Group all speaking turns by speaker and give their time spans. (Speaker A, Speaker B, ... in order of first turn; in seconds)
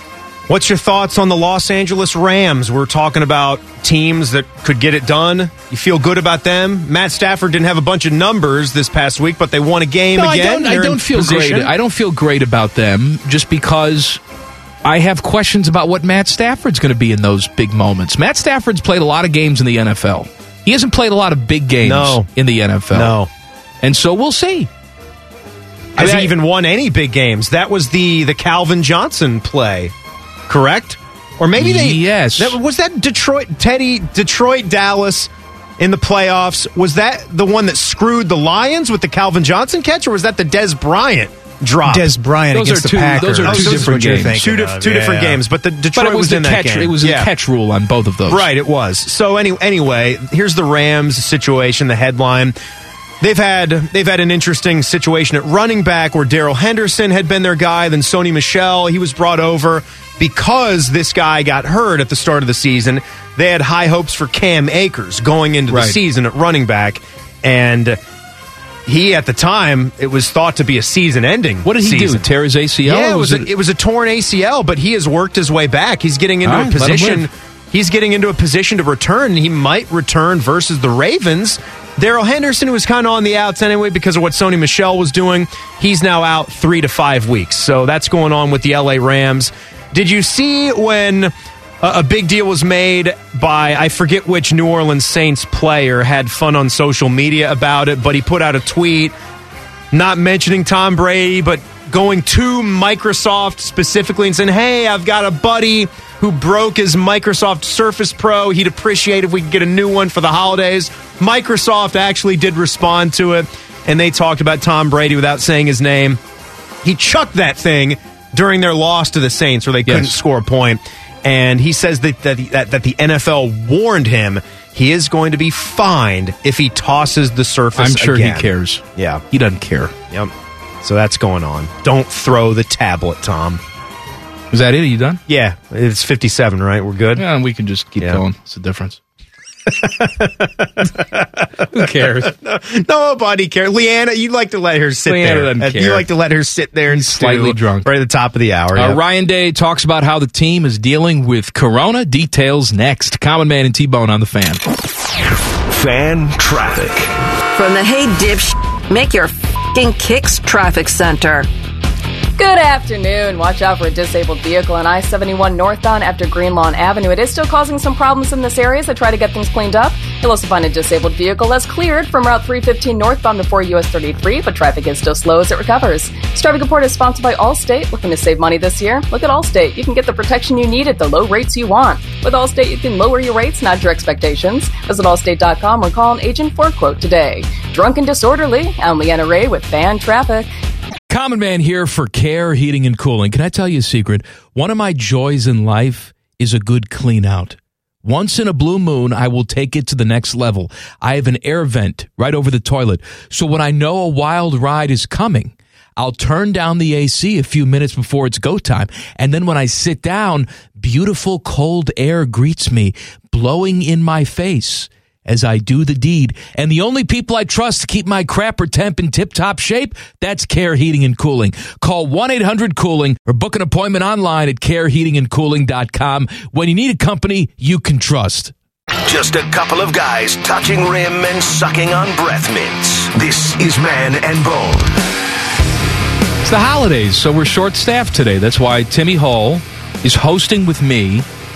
Speaker A: 0.5-11.7, 21.8-22.3, 22.9-23.3, 25.9-29.9, 30.5-42.1, 43.4-47.3, 48.3-52.5, 53.2-68.0, 68.8-72.2, 72.8-99.1, 99.9-116.2, 116.8-129.2, 130.1-133.6, 135.3-137.2, 139.7-149.0
Speaker B: 10.1-14.2, 14.8-23.1, 23.8-24.7, 26.0-26.3, 31.6-32.6, 42.5-44.4, 45.9-48.5, 65.7-66.0, 71.6-73.5, 76.4-77.3, 119.8-120.2, 127.8-129.9, 134.5-135.2, 137.2-139.0, 141.7-142.3, 145.1-146.1, 146.9-147.9, 148.7-154.6, 191.1-228.5, 236.4-241.2
Speaker C: 41.8-45.4
Speaker D: 155.6-157.2, 229.0-235.0
Speaker E: 157.5-161.5
Speaker F: 162.4-190.5